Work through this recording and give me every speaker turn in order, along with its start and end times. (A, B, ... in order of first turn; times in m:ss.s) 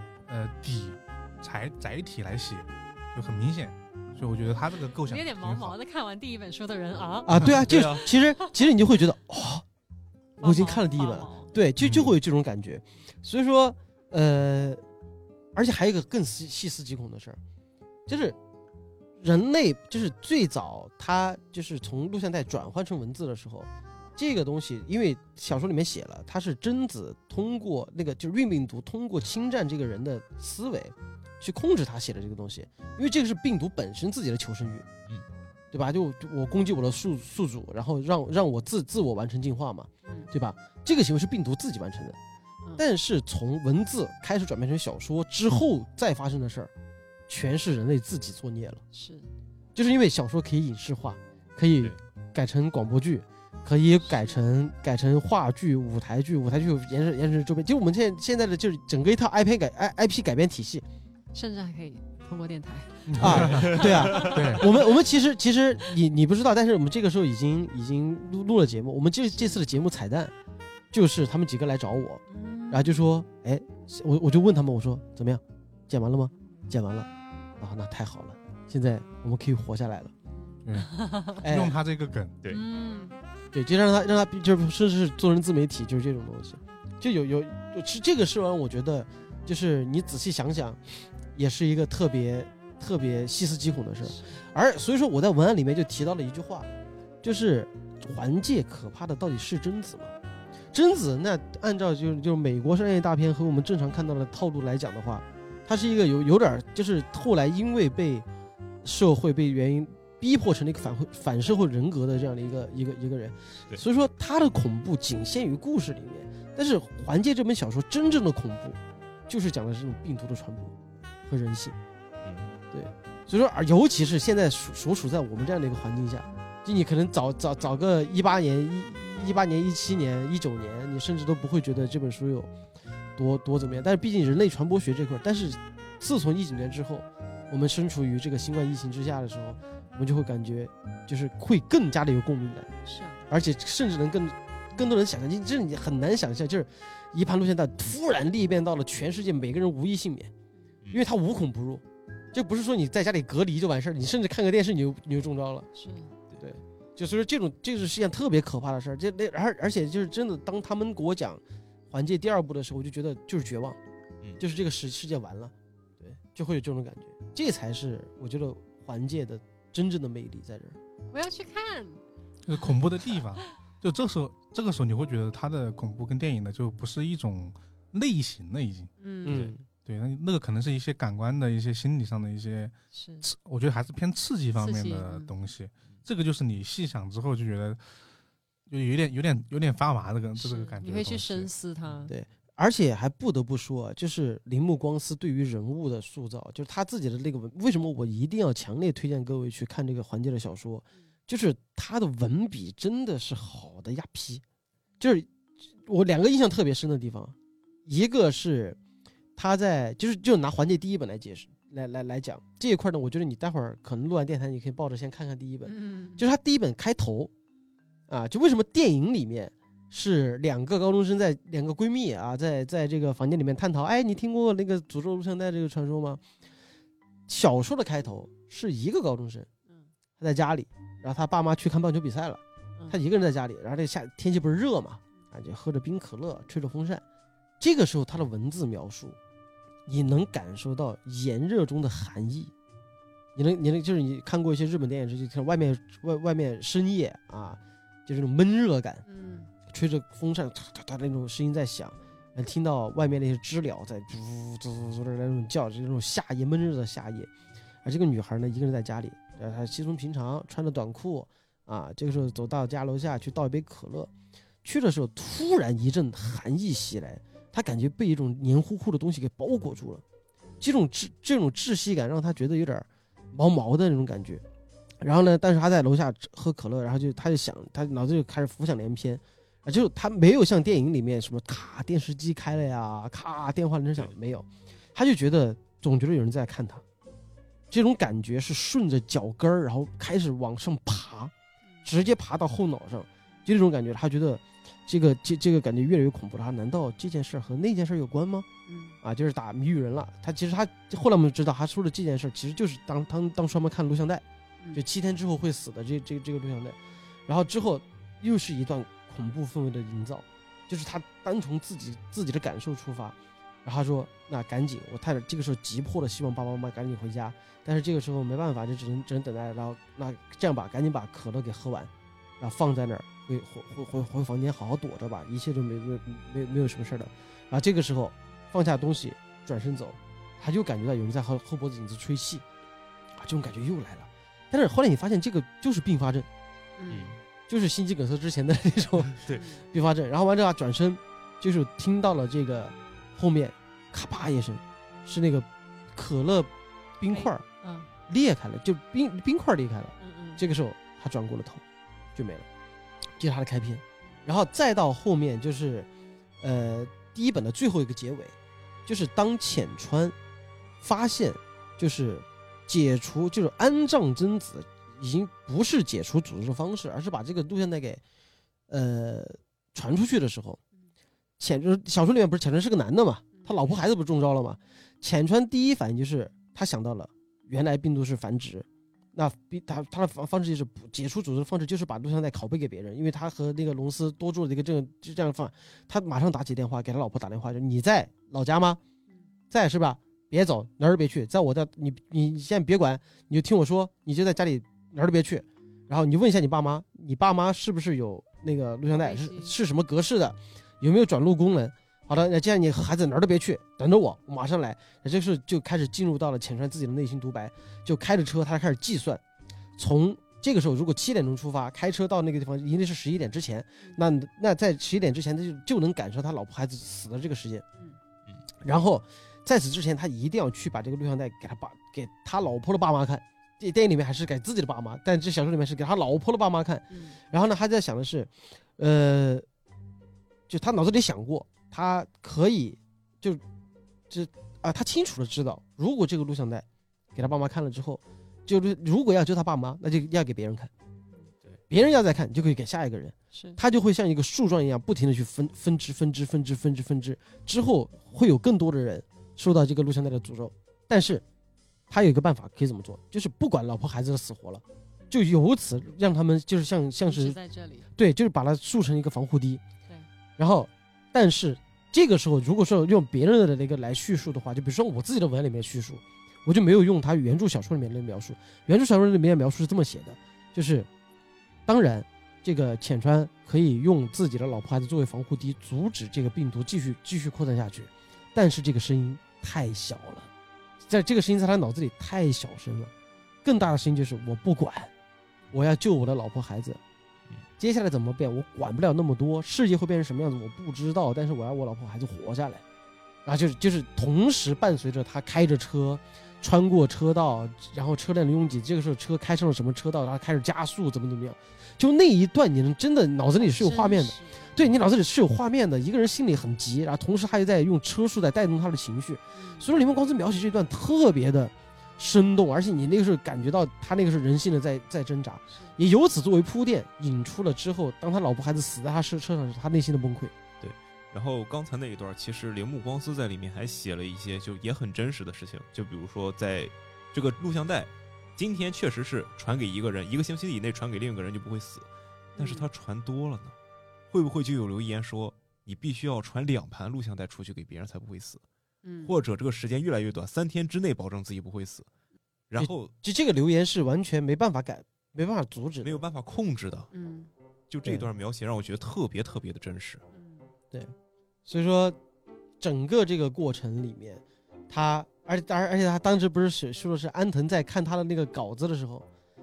0:00.3-0:05.8 A
0:04.9-0:07.5 B
0:07.2-0:09.6 C
0:07.6-0:08.0 D
0:08.4-0:08.6 B
0:10.4-0:14.8 C
0:10.4-0:11.5 B
0:15.5-0:17.4 C
0:18.1-0:18.4 C
0:19.2-0:34.9 C
0:35.7-0:42.2 C
0:42.8-0:46.7 C
0:47.3-0:48.8 C
0:48.9-0:49.3 B
0:49.7-1:00.8 C
0:54.0-0:54.4 B
1:01.3-1:04.9 B
1:03.1-1:04.6 A
1:03.1-1:10.3 C
1:09.3-1:09.6 B
1:10.9-1:20.1 C
1:12.3-1:13.0 B
1:20.5-1:21.4 B
1:20.6-1:22.4 A
1:21.4-1:21.8 C
1:22.5-1:23.2 B
1:23.5-1:30.8 C
1:31.3-1:36.7 C
1:34.0-1:34.4 B
1:37.2-1:40.1 C
1:40.7-1:48.2 C
1:48.8-2:00.7 C
2:01.2-2:01.8 C
2:02.2-2:02.5 D
2:02.7-2:12.5 C
2:13.2-2:22.7 C
2:22.8-2:23.2 B
2:23.3-2:30.3 C
2:30.9-2:35.7 C
2:35.8-2:36.1 B
2:36.4-2:43.8 C
2:44.4-2:50.8 C
2:51.1-2:52.0 B
2:52.5-2:58.9 A
2:59.0-2:59.5 B
2:59.2-2:59.6 C
2:59.8-3:07.8 A
3:02.9-3:03.2 B
3:04.6-3:05.3 B
3:08.7-3:11.5 A
3:10.4-3:12.1 B
3:12.1-3:24.4 C
3:25.0-3:25.3 C
3:25.8-3:27.3 C
3:27.8-3:28.8 C
3:29.4-3:37.3 C
3:35.6-3:36.2 B
3:38.1-3:46.2 C
3:47.3-3:49.5 C
3:50.2-3:57.0 C
3:57.6-3:59.2 C
3:59.9-4:02.5 C
4:03.3-4:09.0 C
4:09.0-4:09.5 B
4:09.7-4:17.3 C
4:17.8-4:24.1 C
4:24.6-4:30.0 C
4:30.6-4:34.4 C
4:35.0-4:46.8 C
4:47.7-4:51.3 C
4:51.8-4:58.5 C
4:58.7-4:59.0 B
4:59.0-5:32.4 C
5:33.2-5:36.3 C
5:36.8-5:37.2 B
5:36.9-5:37.2 D
5:37.5-5:39.2 C
5:39.3-5:39.6 B
5:39.7-5:47.4 C
5:47.1-5:47.9 B
5:48.1-5:51.6 C
5:50.0-5:50.4 B
5:52.1-5:52.4 C
5:53.2-5:55.9 C
5:56.4-5:58.3 C
5:58.8-6:00.1 C
6:00.8-6:08.0 C
6:08.7-6:10.6 C
6:11.4-6:28.8 C
6:13.3-6:13.8 B
6:29.5-6:49.2 C
6:38.9-6:39.6 B
6:49.8-6:57.6 C
6:58.6-7:09.4 C
7:06.9-7:07.2 B
7:10.5-7:13.4 C
7:14.1-7:20.7 C
7:21.7-7:31.2 C
7:23.3-7:23.6 B
7:31.9-7:37.4 C
7:37.0-7:37.9 B
7:38.0-7:39.6 C
7:40.4-7:50.9 C
7:51.6-8:00.3 C
8:00.8-8:02.9 C
8:03.4-8:04.9 C
8:05.5-8:06.8 C
8:07.6-8:12.6 C
8:13.2-8:40.3 C
8:23.4-8:24.6 B
8:29.3-8:29.7 B
8:40.6-8:53.5 D
8:52.4-8:52.7 B
8:54.1-8:58.4 D
8:58.8-8:59.1 B
8:59.0-9:01.9 D
9:02.5-9:02.9 D
9:02.6-9:06.0 C
9:05.8-9:06.9 D
9:06.9-9:07.3 B
9:07.7-9:10.0 D
9:10.1-9:10.5 B
9:11.4-9:12.0 C
9:12.6-9:19.0 C